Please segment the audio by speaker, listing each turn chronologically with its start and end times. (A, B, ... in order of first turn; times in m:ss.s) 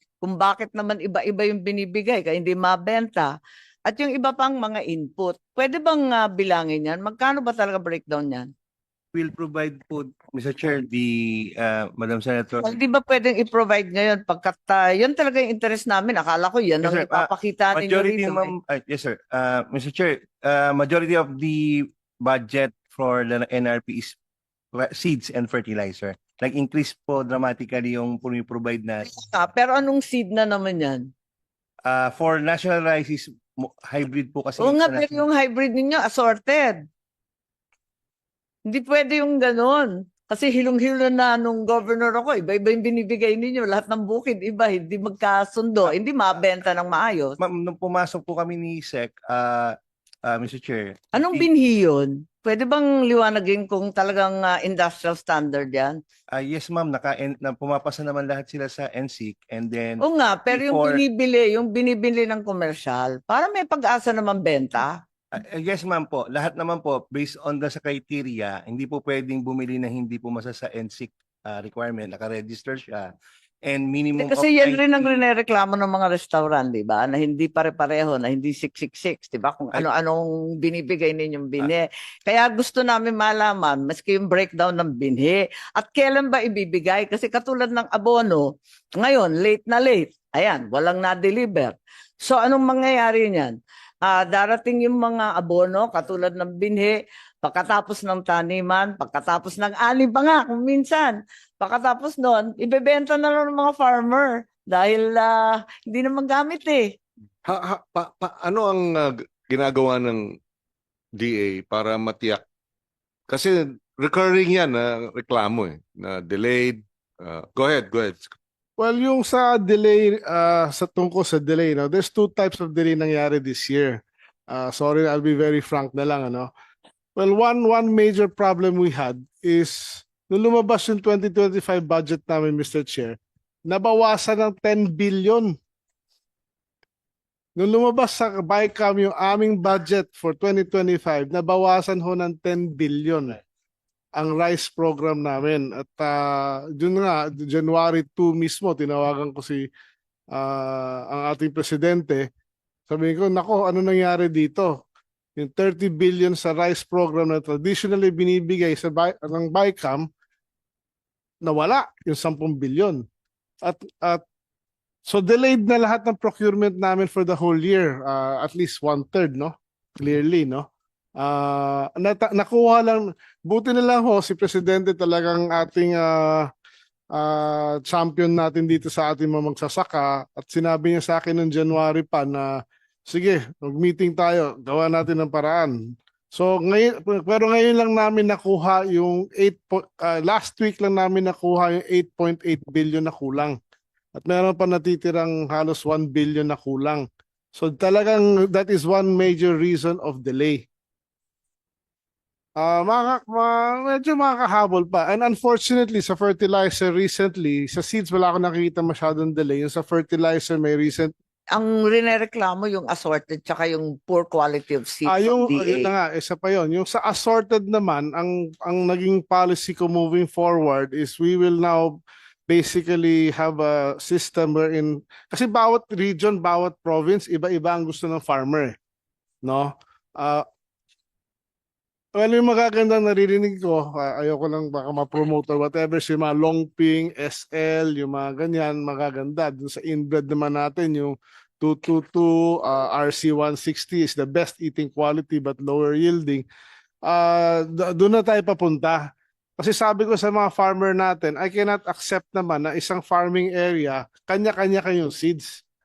0:00.2-0:03.3 A
0:03.9-0:08.5 A
0:09.1-0:12.8 B
0:12.6-0:18.5 A
0:16.8-0:24.2 B
0:24.8-0:29.1 B
0:29.1-0:31.1 A
0:31.9-0:35.2 B
0:34.6-0:36.8 A
0:38.7-0:47.4 A
0:47.4-0:49.8 B
0:50.3-0:51.5 B
0:51.1-0:56.0 A
0:56.4-1:01.0 B
1:00.0-1:04.9 A
1:05.4-1:13.1 B
1:13.7-1:15.2 B
1:14.2-1:28.4 A
1:29.0-1:46.9 A
1:47.4-1:50.2 C
1:51.2-1:52.4 C
1:53.3-1:58.3 C
1:58.8-2:06.5 D
2:07.2-2:15.6 D
2:17.6-2:23.4 D
2:24.2-2:29.7 D
2:30.3-2:32.3 D
2:32.9-2:34.8 D
2:35.4-2:40.1 D
2:41.4-2:43.0 D
2:43.6-2:44.2 D
2:45.1-2:50.7 D
2:51.2-2:56.5 D
2:57.1-3:02.5 D
3:03.1-3:13.6 D
3:14.2-3:20.7 D
3:22.6-3:31.1 D
3:31.6-3:35.9 A
3:35.1-3:48.8 D
3:49.4-3:50.4 D
3:52.2-4:06.5 D
4:07.0-4:15.6 D